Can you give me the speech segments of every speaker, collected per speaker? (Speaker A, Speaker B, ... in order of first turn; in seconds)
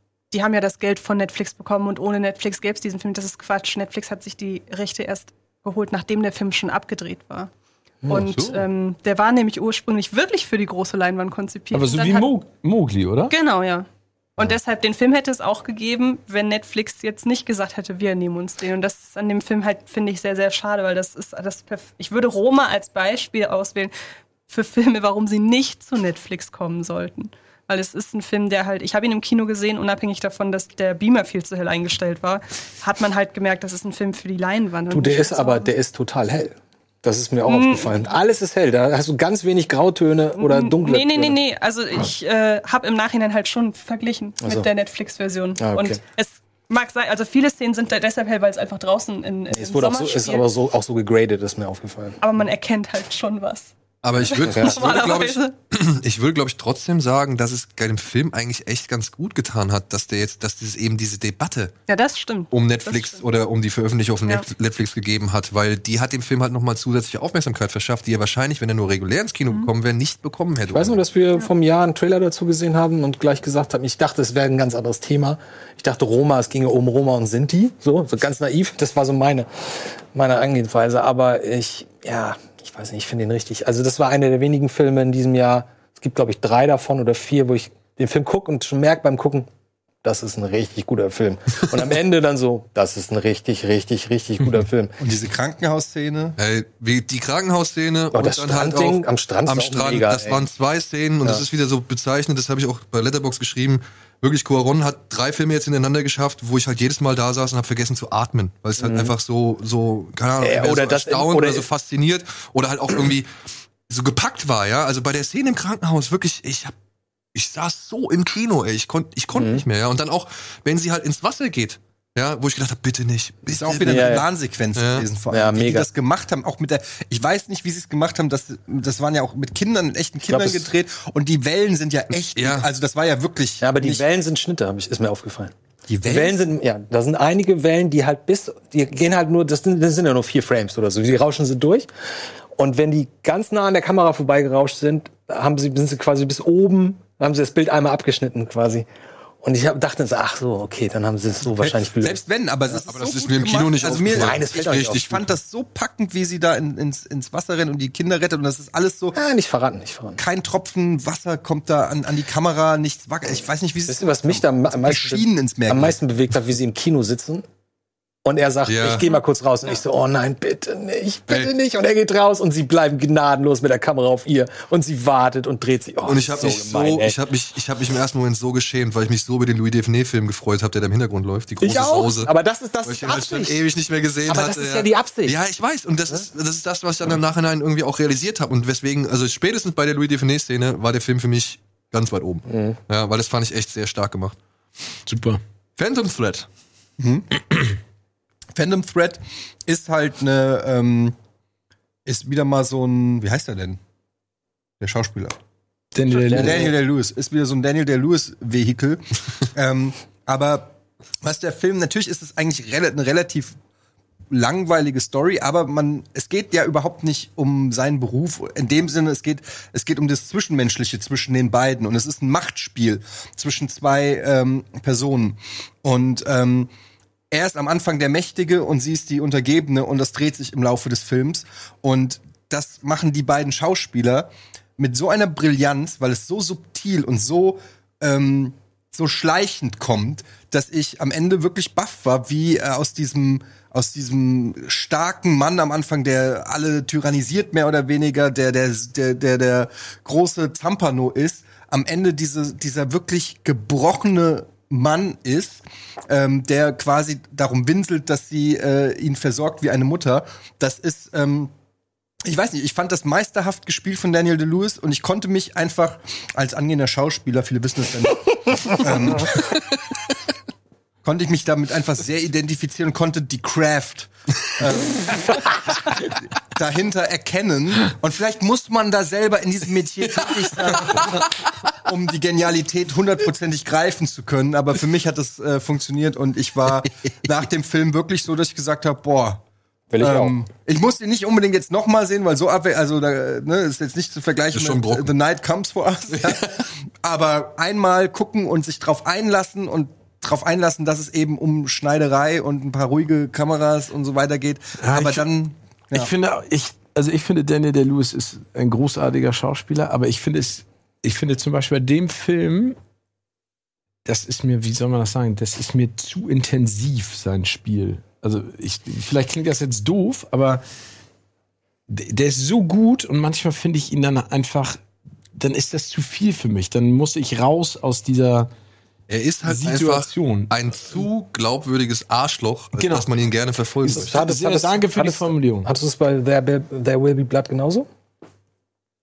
Speaker A: 0.3-7.5, 8.1-12.3, 13.3-13.9, 14.4-23.9, 24.5-35.7, 37.5-38.0, 40.4-50.5, 52.2-53.7, 54.2-55.5, 61.9-63.2
Speaker B: 8.0-8.3, 34.9-41.4, 44.4-44.7, 45.6-46.0, 49.5-52.2, 54.5-54.8, 70.7-89.5, 90.0-95.0, 98.1-100.5, 108.8-109.1, 110.4-111.7, 119.3-119.6, 123.8-124.3, 125.3-125.9, 130.3-130.7, 133.6-135.5, 136.1-141.9, 142.5-148.9, 149.4-152.2, 154.1-155.3, 159.2-160.2, 163.9-167.4, 168.2-177.2, 181.6-183.7, 184.3-185.4, 192.5-192.8, 289.9-290.4, 333.8-337.9
Speaker C: 8.1-8.6, 11.7-13.3, 195.1-195.4, 205.9-206.7, 304.8-305.2, 305.9-312.8, 314.1-320.6, 321.9-324.8, 325.4-328.5, 329.4-330.5, 332.8-333.1, 333.9-335.7
Speaker D: 54.0-61.7, 62.5-71.0, 96.4-113.3, 113.9-116.8, 117.3-124.2, 124.8-125.1, 132.3-132.7, 152.9-155.3, 168.7-169.1, 176.1-182.3, 182.8-194.4, 195.8-196.5, 280.9-281.2, 294.5-295.1, 296.1-296.7, 329.1-334.2
Speaker E: 95.0-96.4, 123.5-134.0, 135.9-136.5, 151.6-159.2, 160.2-166.0, 197.0-197.3, 198.6-201.2, 202.1-203.8, 204.8-205.4, 206.1-209.0, 209.5-213.6, 214.3-226.7, 227.3-261.5, 262.2-269.6, 271.0-289.4, 290.0-296.5, 297.0-306.1